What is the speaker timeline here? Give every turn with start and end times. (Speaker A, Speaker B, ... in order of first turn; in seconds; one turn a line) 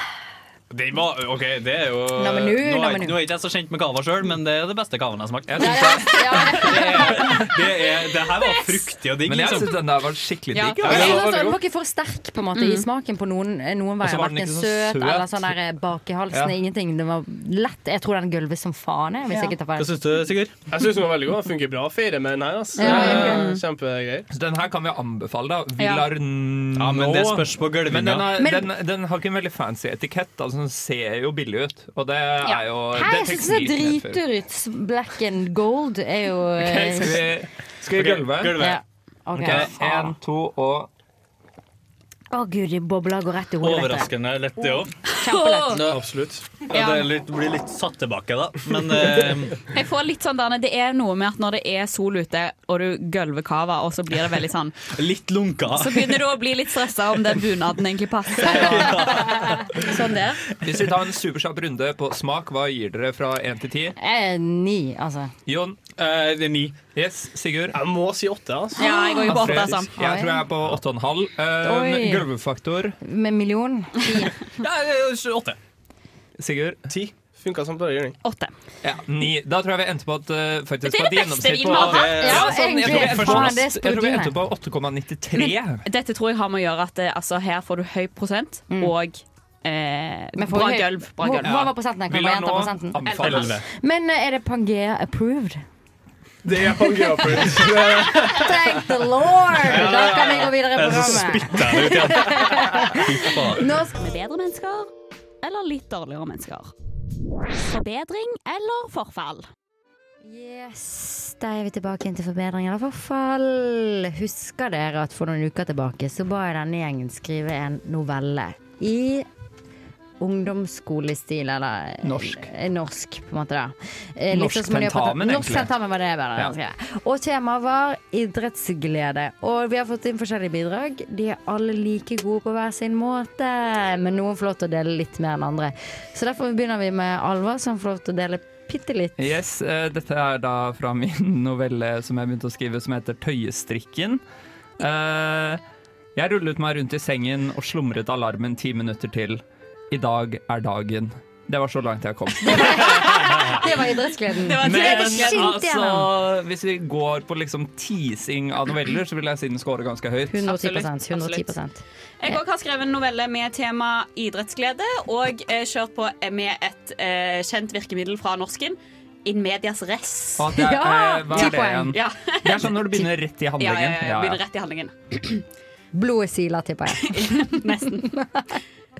Speaker A: 0.7-9.7
Speaker B: 2.2-3.2
Speaker C: 5.5-7.4
Speaker B: 5.6-7.5
Speaker D: 8.4-8.7
Speaker C: 9.2-11.3
Speaker D: 10.5-11.3
Speaker E: 10.8-11.6
Speaker B: 10.8-19.9
Speaker D: 12.5-12.8
Speaker C: 14.0-15.5
Speaker A: 19.7-20.5
Speaker E: 20.7-24.3
Speaker B: 22.8-23.5
Speaker A: 22.8-23.4
Speaker D: 23.0-23.6
Speaker C: 24.3-34.2
Speaker B: 25.8-26.0
Speaker A: 26.8-28.3
Speaker B: 28.4-28.7
Speaker B: 32.9-37.2
Speaker C: 36.6-38.7
Speaker A: 37.9-38.8
Speaker B: 38.6-40.1
Speaker C: 39.4-40.9
Speaker B: 42.3-44.1
Speaker A: 43.6-44.9
Speaker B: 44.8-45.9
Speaker D: 45.2-45.8
Speaker A: 45.7-49.6
Speaker D: 46.7-47.0
Speaker D: 49.7-54.9
Speaker A: 54.9-56.2
Speaker D: 55.7-59.0
Speaker A: 58.4-59.8
Speaker B: 58.4-60.4
Speaker D: 59.9-60.1
Speaker C: 60.6-64.0
Speaker B: 64.0-65.3
Speaker C: 65.5-65.8
Speaker A: 66.0-66.8
Speaker C: 66.9-67.8
Speaker E: 67.7-69.8
Speaker D: 68.8-69.9
Speaker C: 69.2-73.0
Speaker B: 70.0-70.5
Speaker B: 71.6-72.3
Speaker B: 73.0-74.3
Speaker A: 74.6-75.6
Speaker C: 76.4-76.8
Speaker E: 76.9-78.2
Speaker D: 78.2-78.5
Speaker C: 78.8-85.8
Speaker D: 80.8-82.2
Speaker A: 81.8-83.6
Speaker B: 82.2-84.3
Speaker D: 85.3-91.5
Speaker B: 90.4-93.0
Speaker C: 91.4-93.6
Speaker D: 93.0-93.5
Speaker A: 93.2-93.6
Speaker B: 93.6-95.6
Speaker E: 96.4-98.8
Speaker B: 96.9-104.0
Speaker E: 99.7-101.0
Speaker A: 99.7-103.7
Speaker D: 103.9-104.9
Speaker D: 105.4-106.7
Speaker D: 107.6-109.5
Speaker B: 110.2-119.2
Speaker B: 120.2-139.3
Speaker C: 122.0-122.5
Speaker C: 124.3-125.7
Speaker C: 139.2-144.2
Speaker C: 144.8-145.6
Speaker C: 146.2-153.6
Speaker B: 152.4-156.1
Speaker D: 153.2-153.5
Speaker D: 154.4-155.5
Speaker C: 154.6-160.5
Speaker B: 160.3-162.4
Speaker D: 160.4-161.5
Speaker D: 162.2-170.5
Speaker C: 170.4-174.4
Speaker B: 170.6-171.9
Speaker D: 171.3-172.9
Speaker D: 173.6-175.4
Speaker B: 175.9-178.6
Speaker D: 177.0-178.1